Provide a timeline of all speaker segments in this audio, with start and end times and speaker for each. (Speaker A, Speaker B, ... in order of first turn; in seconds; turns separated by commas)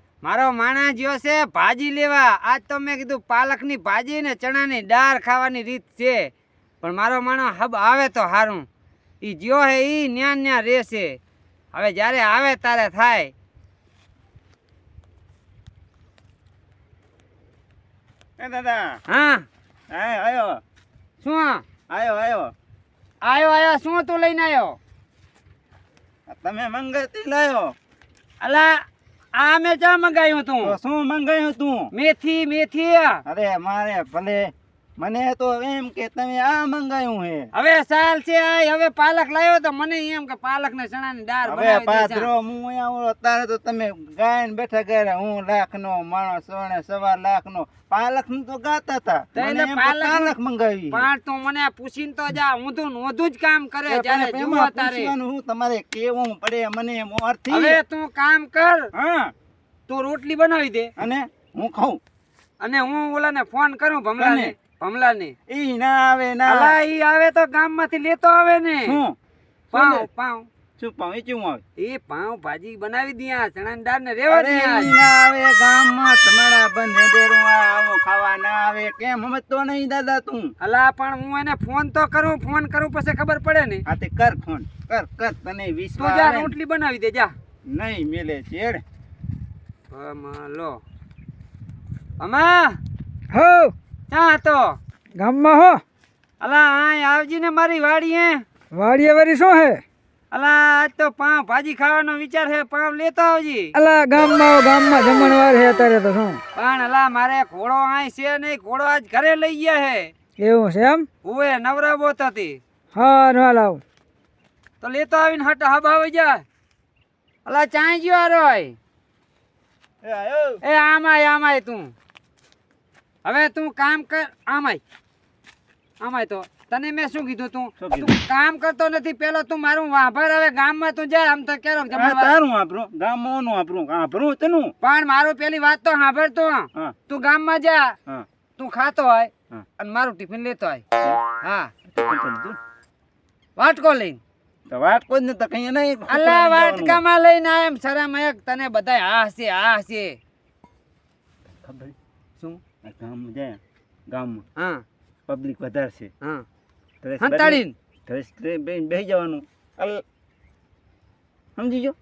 Speaker A: 0.2-8.7, Speaker A: 9.2-11.2, Speaker A: 11.7-13.3, Speaker B: 18.4-19.0, Speaker A: 19.1-19.5, Speaker B: 19.9-20.6, Speaker A: 21.2-21.6, Speaker B: 21.9-22.5, Speaker A: 23.2-24.8, Speaker B: 26.3-27.8, Speaker A: 28.4-28.8, Speaker A: 29.4-30.8, Speaker B: 30.6-31.9, Speaker A: 31.9-33.2, Speaker B: 33.3-37.5, Speaker A: 37.5-42.3, Speaker B: 41.5-51.1, Speaker A: 49.4-50.3, Speaker A: 50.9-55.1, Speaker B: 53.9-57.8, Speaker A: 57.5-58.9, Speaker B: 58.9-59.3, Speaker A: 59.9-60.9, Speaker B: 61.0-62.0, Speaker A: 62.6-65.3, Speaker B: 64.2-64.5, Speaker B: 65.5-66.8, Speaker A: 66.5-69.0, Speaker B: 68.9-69.2, Speaker B: 69.7-70.1, Speaker A: 69.7-70.5, Speaker B: 70.8-71.6, Speaker A: 71.8-75.0, Speaker B: 74.3-80.5, Speaker A: 80.6-83.8, Speaker B: 83.9-86.5, Speaker A: 86.0-87.3, Speaker B: 87.7-88.8, Speaker A: 89.9-90.8, Speaker A: 92.2-92.8, Speaker C: 93.3-93.7, Speaker A: 94.1-94.8, Speaker C: 95.2-95.8, Speaker A: 96.4-98.5, Speaker C: 98.7-99.8, Speaker A: 100.3-103.8, Speaker C: 103.7-106.4, Speaker A: 106.5-110.1, Speaker C: 110.4-111.1, Speaker A: 111.2-112.6, Speaker C: 112.9-113.8, Speaker A: 114.8-116.4, Speaker A: 117.5-118.8, Speaker B: 120.0-120.6, Speaker A: 120.6-121.9, Speaker A: 123.2-124.8, Speaker A: 126.0-132.3, Speaker B: 127.8-128.1, Speaker B: 131.9-134.7, Speaker A: 134.8-138.0, Speaker A: 138.6-140.8, Speaker A: 141.4-141.7, Speaker B: 141.9-142.6, Speaker A: 143.6-144.2, Speaker B: 144.7-147.0, Speaker A: 146.1-150.2, Speaker B: 151.6-151.9, Speaker B: 152.8-154.4, Speaker A: 154.6-154.8, Speaker B: 155.3-156.1, Speaker B: 157.0-160.0, Speaker A: 157.2-157.7, Speaker B: 161.6-161.9